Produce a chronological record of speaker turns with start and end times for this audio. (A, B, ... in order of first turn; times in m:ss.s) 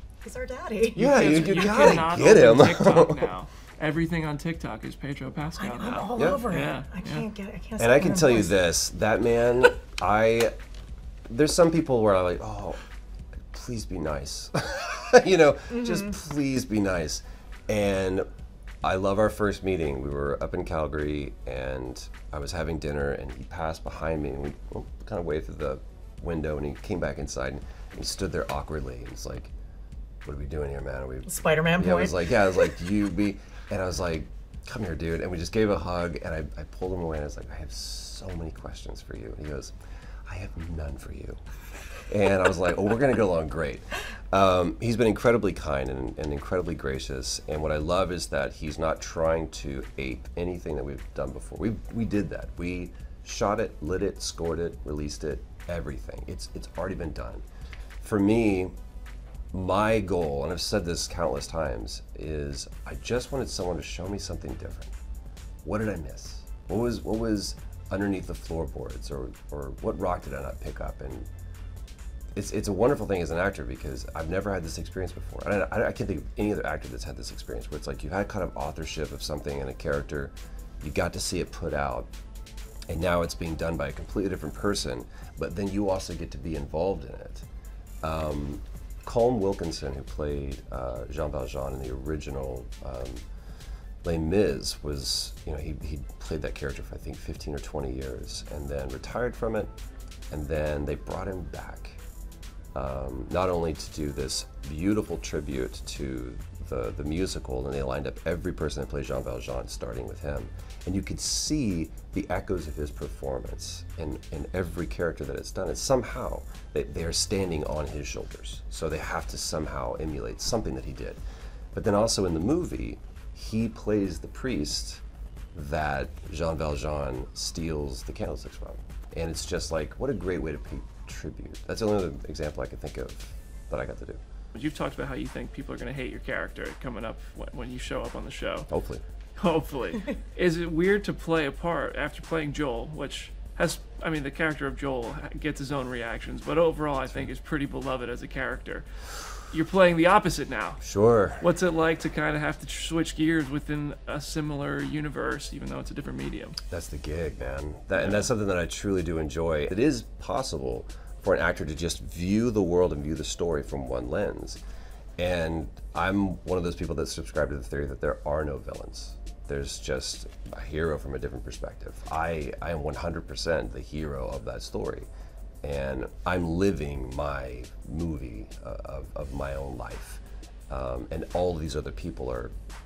0:00.2-0:01.1 A
0:00.9-0:03.3 B
0:00.9-0:07.3 C
0:05.6-0:08.6 A
0:06.1-0:06.4 B
0:07.8-0:10.5 B
0:11.3-0:12.8 B
0:13.5-0:18.2 B
0:15.7-0:16.1 A
0:18.8-0:29.5 B
0:30.2-0:39.7 B
0:31.3-0:32.3 A
0:40.3-0:41.4 B
0:42.1-0:57.4 B
0:58.0-0:58.7 B
0:59.5-1:04.9 B
1:05.6-1:11.3 B
1:12.3-1:22.1 B
1:22.9-1:27.4 B
1:28.0-1:33.2 B
1:34.0-1:39.7 B
1:40.3-1:42.0 B
1:42.7-2:01.2 B
2:01.7-2:05.0 B
2:05.5-2:14.2 B
2:14.5-2:18.7 C
2:18.7-2:19.0 B
2:19.4-2:28.9 C
2:29.5-2:30.8 C
2:30.8-2:31.4 B
2:31.4-2:36.6 C
2:36.7-2:44.6 B
2:38.0-2:38.3 C
2:45.2-2:55.1 B
2:55.6-3:02.5 B